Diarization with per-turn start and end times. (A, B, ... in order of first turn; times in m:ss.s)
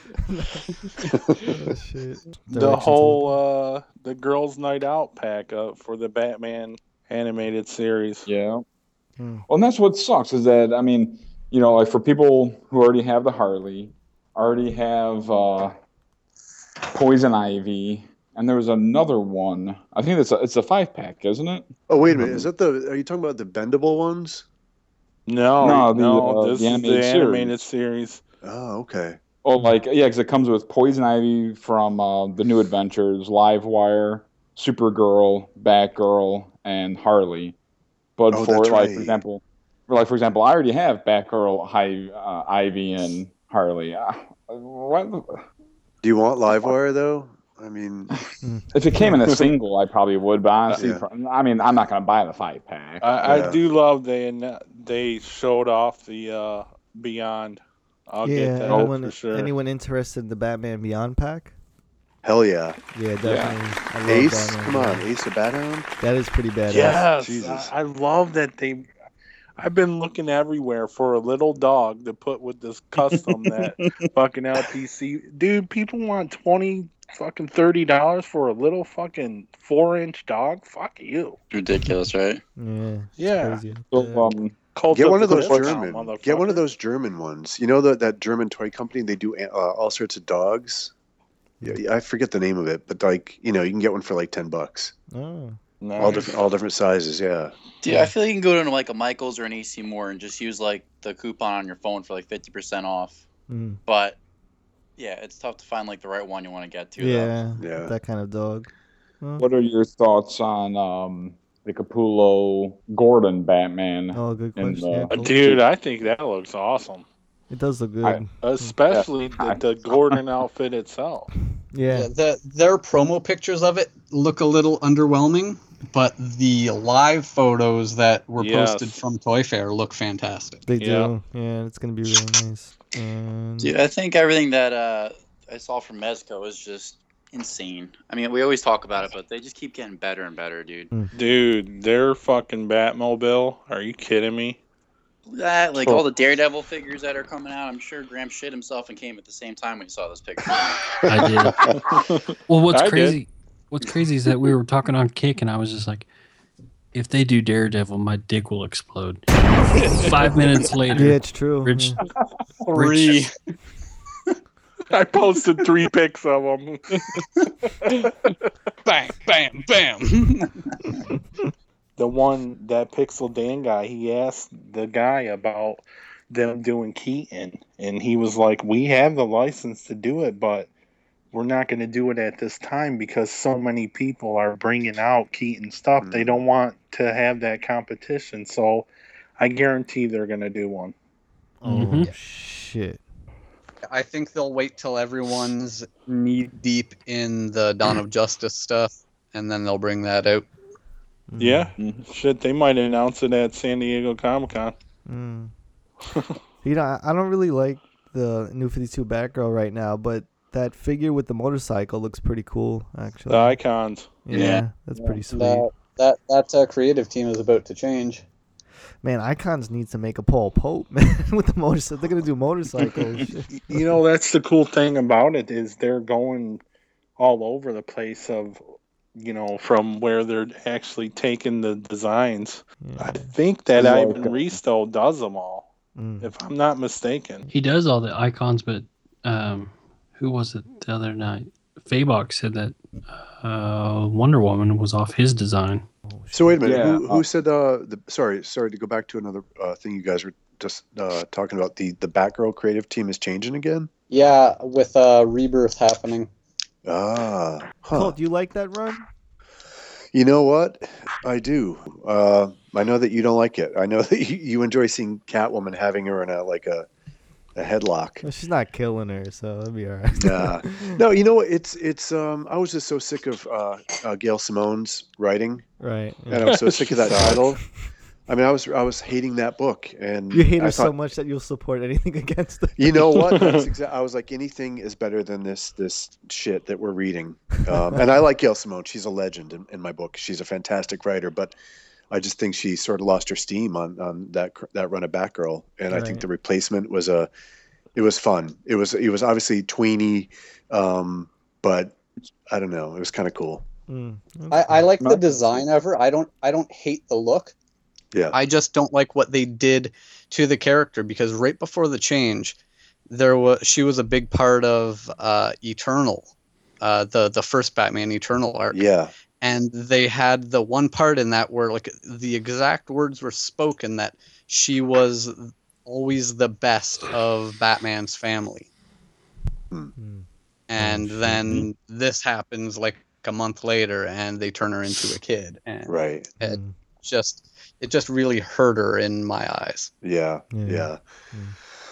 0:00.3-0:00.6 A
0:01.1-0:01.4 B
0:01.4-0:03.4 A
0:02.5-0:08.3 C
0:08.3-0:08.6 D
0:09.2-0:09.5 A
0:09.5-0:15.8 D
0:16.9-0:21.7 D
0:21.9-0:24.4 B
0:25.3-0:28.2 C
0:25.6-0:27.6 D
0:28.4-0:29.2 B
0:29.4-0:37.6 D
0:38.2-0:45.4 D
0:38.3-0:39.2 B
0:46.0-0:48.1 B
0:48.1-0:53.0 D
0:48.4-0:49.1 A
0:50.7-0:51.0 B
0:53.0-0:59.5 C
0:53.2-0:53.6 B
0:58.2-1:01.5 A
0:58.6-0:59.0 D
1:02.2-1:02.8 B
1:02.9-1:05.0 A
1:03.2-1:03.6 D
1:04.0-1:05.9 B
1:06.0-1:07.0 A
1:06.7-1:08.9 C
1:06.8-1:07.7 B
1:09.6-1:21.4 C
1:13.0-1:14.1 D
1:21.5-1:22.4 E
1:22.6-1:24.3 A
1:23.2-1:23.6 C
1:23.9-1:24.6 D
1:24.7-1:26.6 C
1:24.9-1:30.9 B
1:31.6-1:34.9 B
1:35.1-1:35.6 A
1:35.8-1:36.4 C
1:36.0-1:37.5 B
1:37.8-1:43.2 E
1:43.5-1:43.8 A
1:43.8-1:44.2 E
1:45.0-1:47.4 E
1:47.0-1:49.4 A
1:47.6-1:47.9 B
1:49.4-1:55.6 D
1:54.1-1:55.4 A
1:55.1-1:57.1 C
1:57.5-1:58.7 A
1:58.4-2:01.3 C
1:58.9-2:00.2 D
2:01.7-2:02.1 A
2:01.9-2:10.6 F
2:08.4-2:09.0 C
2:10.7-2:13.7 A
2:10.8-2:11.1 C
2:13.6-2:20.9 E
2:21.1-2:24.6 C
2:25.3-2:30.9 E
2:31.1-2:31.8 G
2:31.8-2:33.2 C
2:32.5-2:36.1 G
2:36.9-2:39.2 G
2:39.9-2:42.0 G
2:40.9-2:42.0 A
2:42.7-2:43.3 F
2:42.7-2:43.2 G
2:44.9-2:47.1 C
2:47.7-2:48.3 C
2:48.9-2:50.5 F
2:52.0-3:00.7 C
3:01.3-3:10.9 C
3:06.0-3:06.4 B
3:11.6-3:13.0 A
3:11.6-3:12.1 G
3:13.9-3:20.5 F
3:16.1-3:16.5 D
3:21.3-3:21.7 A
3:21.4-3:24.8 C
3:21.8-3:22.0 D
3:25.1-3:25.5 A
3:26.6-3:33.6 A
3:33.3-3:34.2 C
3:34.2-3:35.7 A
3:34.3-3:35.2 D
3:35.3-3:38.2 F
3:39.0-3:44.0 A
3:42.8-3:43.2 D
3:43.5-3:46.6 C
3:47.2-3:48.6 C
3:49.2-3:55.7 C
3:52.8-3:53.3 A
3:53.8-3:54.5 D
3:56.0-3:56.3 A
3:56.2-3:57.4 C
3:57.5-4:05.8 G
4:06.1-4:06.8 A
4:06.3-4:13.9 B
4:06.6-4:07.2 D
4:14.1-4:16.3 F
4:16.9-4:18.2 B
4:17.9-4:19.1 A
4:20.1-4:26.9 B
4:27.6-4:28.2 B
4:28.2-4:31.0 A
4:30.2-4:35.6 B
4:35.8-4:36.6 A
4:36.3-4:37.6 B
4:36.5-4:37.6 C
4:38.3-4:40.9 B
4:40.3-4:43.2 A
4:42.8-4:51.5 B
4:43.2-4:43.7 C
4:47.7-4:48.0 A
4:52.1-4:57.3 B
4:55.9-4:56.2 A
4:58.0-5:03.6 B
5:03.9-5:04.9 A
5:04.5-5:07.5 F
5:05.0-5:05.3 D
5:08.3-5:12.6 F
5:13.1-5:16.3 F
5:16.8-5:18.8 F
5:18.7-5:19.1 B
5:19.4-5:28.7 F
5:30.0-5:30.2 A
5:30.7-5:39.9 F
5:30.8-5:31.6 A
5:35.9-5:36.3 B
5:36.4-5:36.7 A
5:40.0-5:41.0 B
5:40.5-5:41.6 A